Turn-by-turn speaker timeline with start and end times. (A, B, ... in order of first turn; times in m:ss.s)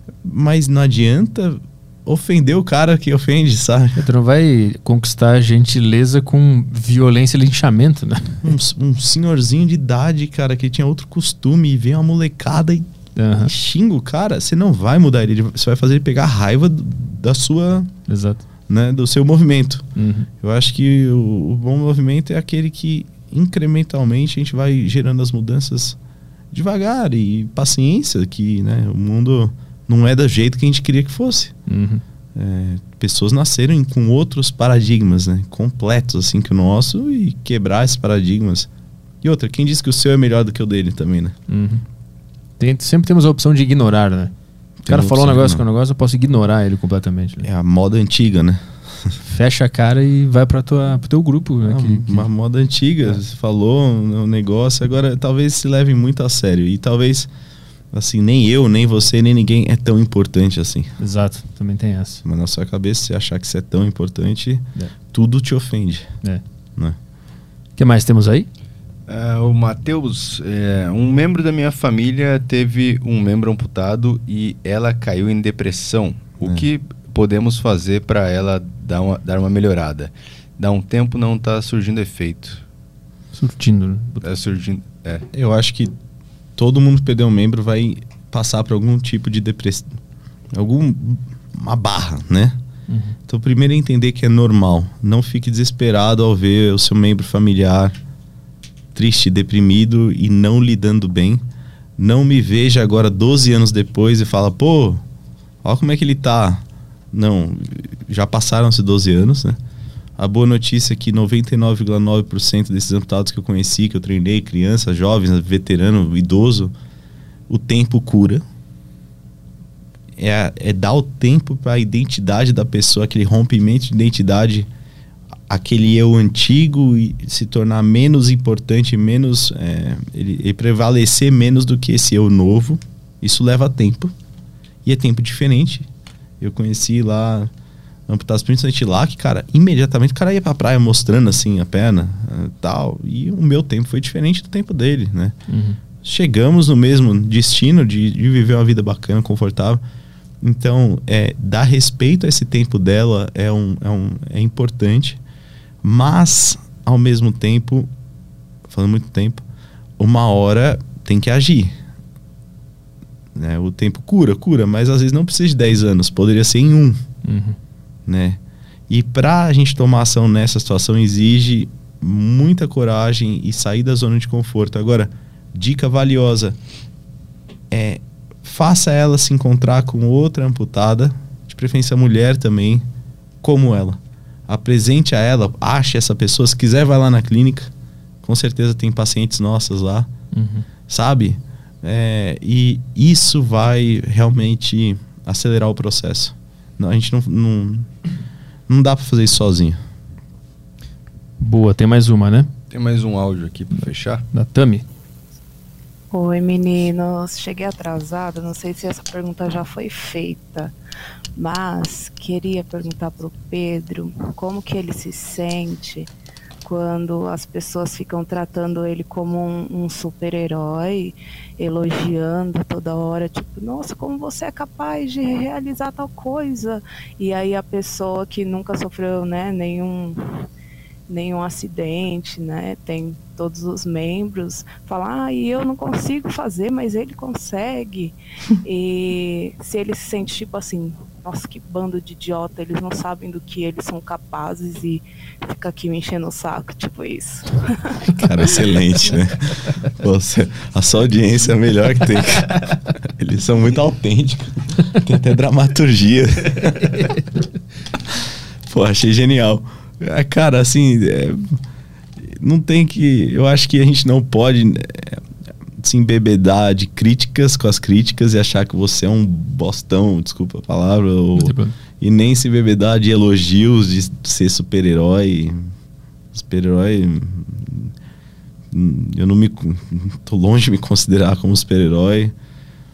0:00.2-0:04.0 A
0:04.0-0:08.5 B
0:08.4-0:12.9 A
0:13.2-0:13.5 B
0:13.4-0:17.9 A
0:18.1-0:18.4 B
0:18.7-0:19.9 A
0:20.0-0:20.3 B
0:20.4-0:26.0 A
0:26.5-0:31.5 A
0:31.7-0:32.0 B
0:32.3-0:38.7 A
0:39.2-0:41.4 A
0:41.5-0:41.8 B
0:42.6-0:44.3 B
0:44.8-0:45.6 A
0:44.9-0:47.4 B
0:47.4-0:49.1 A
0:49.2-0:52.3 B
0:51.7-0:57.3 A
0:57.9-1:00.9 A
1:01.0-1:02.2 B
1:02.2-1:06.1 A
1:07.8-1:08.5 B
1:09.1-1:22.6 C
1:16.4-1:16.7 A
1:23.3-1:24.2 B
1:24.2-1:25.3 C
1:25.3-1:25.9 A
1:26.6-1:29.9 A
1:30.5-1:32.6 A
1:32.9-1:33.2 B
1:33.3-1:38.0 A
1:38.9-1:41.4 A
1:42.0-1:45.0 A
1:45.6-1:49.6 A
1:50.2-1:56.7 A
1:57.5-1:58.4 A
2:00.2-2:04.7 A
2:05.5-2:14.1 A
2:14.8-2:15.9 A
2:16.4-2:17.5 A
2:18.1-2:25.4 A
2:25.5-2:25.8 B
2:26.0-2:29.8 A
2:30.4-2:35.2 A
2:35.8-2:37.9 A
2:38.7-2:39.4 A
2:40.0-2:41.8 A
2:43.3-2:47.0 A
2:47.2-2:47.6 B
2:48.1-2:56.6 A
2:57.7-3:02.9 A
3:03.4-3:07.7 A
3:08.2-3:10.1 A
3:10.3-3:10.6 B
3:10.9-3:17.9 A
3:18.7-3:19.8 A
3:21.4-3:22.5 B
3:22.7-3:24.2 C
3:24.3-3:24.8 B
3:26.1-3:30.7 D
3:31.4-3:36.1 D
3:36.6-3:50.4 D
3:51.1-4:08.1 D
4:08.1-4:16.9 A
4:16.7-4:17.2 B
4:18.7-4:21.4 A
4:22.2-4:25.2 A
4:25.8-4:35.6 A
4:31.4-4:31.7 B
4:36.3-4:37.9 A
4:38.7-4:42.3 A